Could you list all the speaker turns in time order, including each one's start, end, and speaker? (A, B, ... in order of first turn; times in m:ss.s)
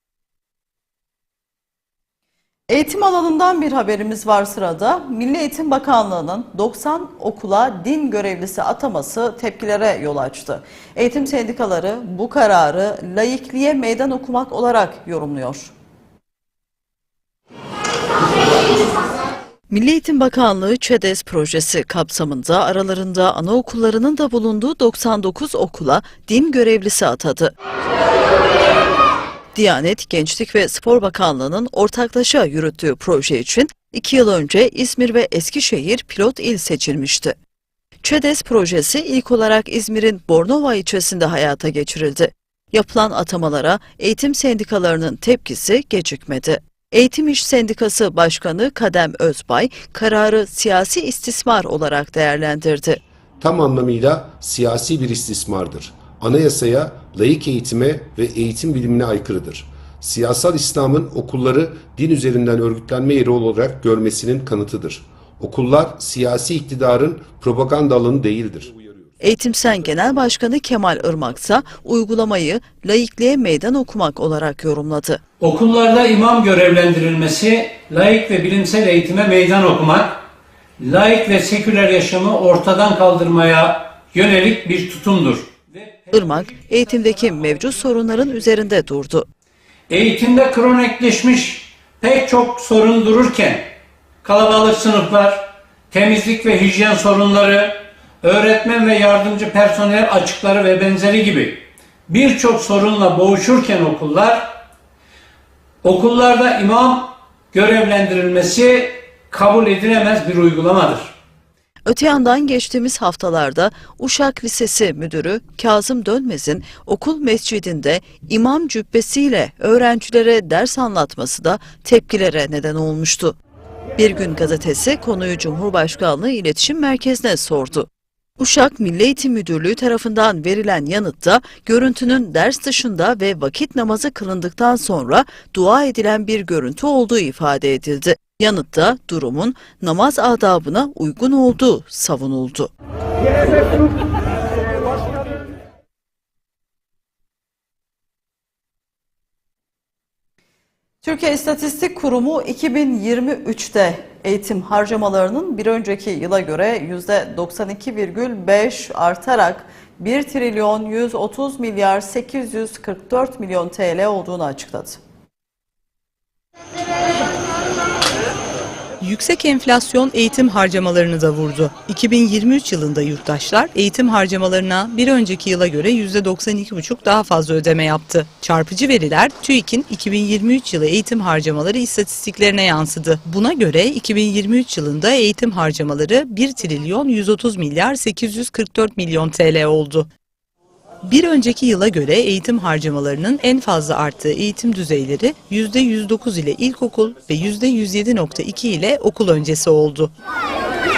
0:02.7-0:15.7 A
0:19.7-0:27.5 A
0:29.5-0:37.4 A
0:38.0-0:53.0 A
0:53.4-1:08.9 B
1:09.2-1:15.2 A
1:15.4-1:20.2 C
1:20.8-1:26.0 C
1:26.1-1:29.3 A
1:29.9-1:33.7 C
1:34.2-1:44.6 C
1:45.8-1:51.1 C
1:51.8-2:03.4 A
2:04.0-2:07.9 A
2:08.4-2:22.7 A
2:31.0-2:45.0 A
2:49.0-3:10.1 D
3:11.0-3:20.1 D